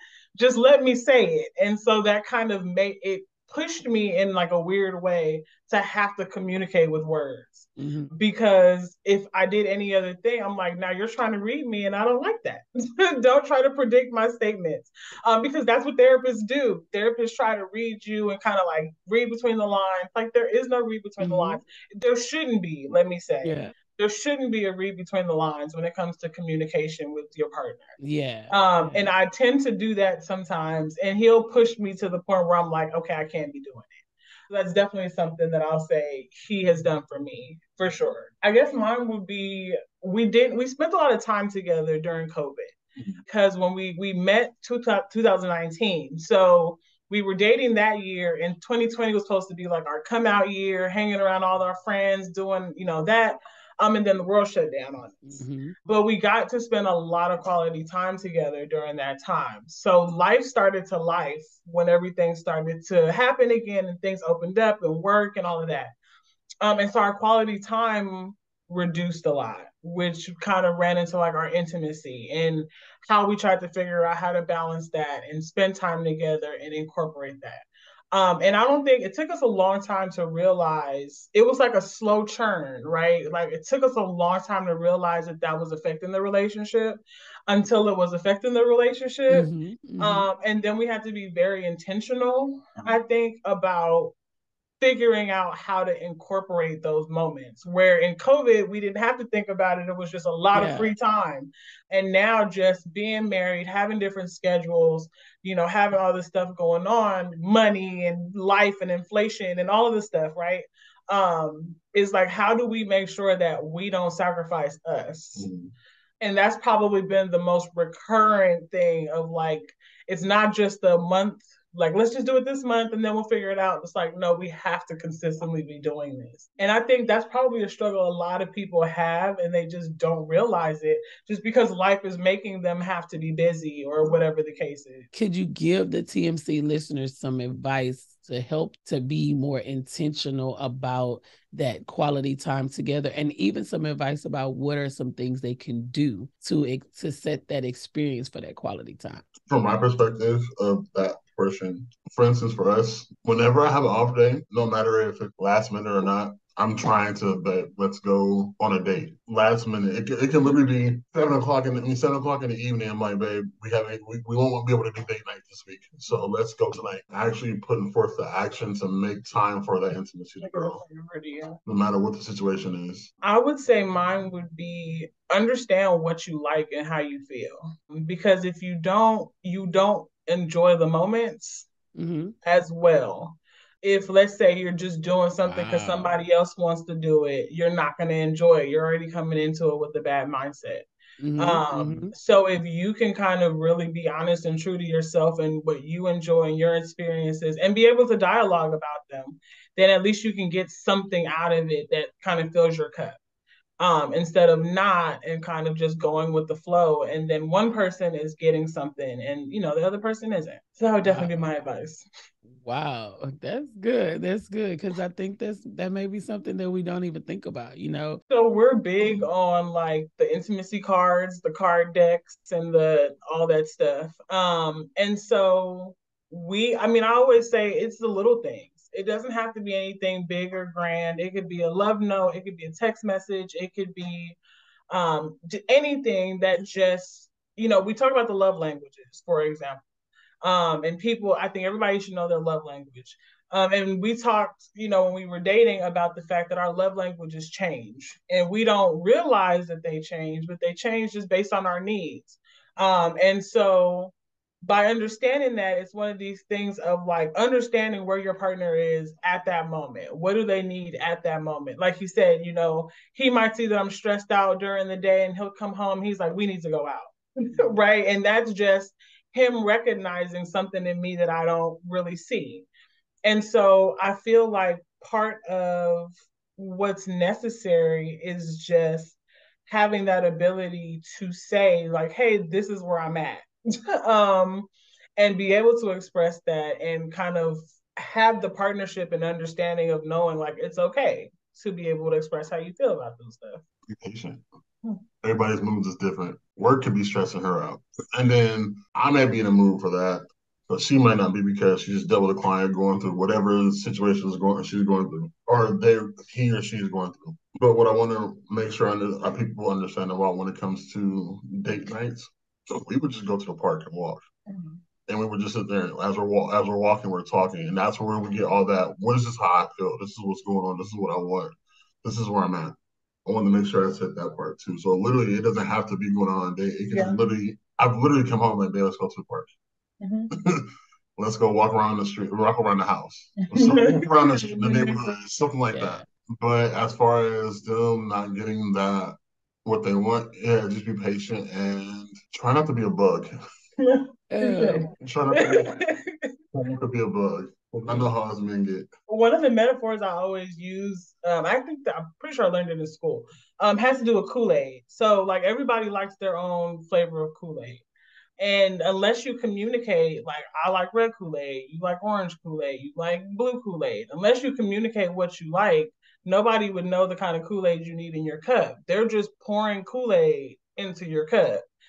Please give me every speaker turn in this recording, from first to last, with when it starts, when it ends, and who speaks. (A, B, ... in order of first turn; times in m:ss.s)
0:00.4-0:27.9 A
0:07.8-0:08.1 B
0:21.2-0:21.6 B
0:23.4-0:23.7 B
0:28.0-0:29.1 B
0:28.5-1:05.9 A
0:55.2-0:55.8 B
1:06.6-1:29.5 A
1:29.3-1:30.3 B
1:30.0-1:34.1 A
1:34.8-1:55.5 A
1:40.5-1:40.9 B
1:55.4-1:55.7 C
1:56.2-2:15.1 A
2:15.1-2:29.3 B
2:29.4-2:50.8 C
2:50.4-2:51.6 A
2:51.6-2:53.1 C
2:53.2-3:01.7 A
3:02.0-3:02.3 B
3:02.4-3:23.2 A
3:05.4-3:06.2 B
3:11.2-3:12.1 B
3:23.8-3:32.0 A
3:31.0-3:31.4 B
3:32.6-3:38.2 B
3:38.3-3:54.4 A
3:54.9-3:59.8 A
4:00.4-4:32.7 A
4:33.2-4:43.5 A
4:44.0-4:53.6 A
4:53.9-4:54.4 C
4:55.2-5:14.2 C
5:14.5-5:14.8 A
5:15.1-5:29.5 C
5:26.9-5:27.2 A
5:30.0-5:30.3 A
5:31.2-5:43.3 C
5:33.5-5:35.0 A
5:35.7-5:36.0 B
5:43.8-5:44.8 A
5:44.3-5:44.9 B
5:45.0-5:45.8 C
5:45.4-5:46.3 A
5:46.5-5:48.9 C
5:49.1-5:57.8 A
5:58.4-6:11.6 A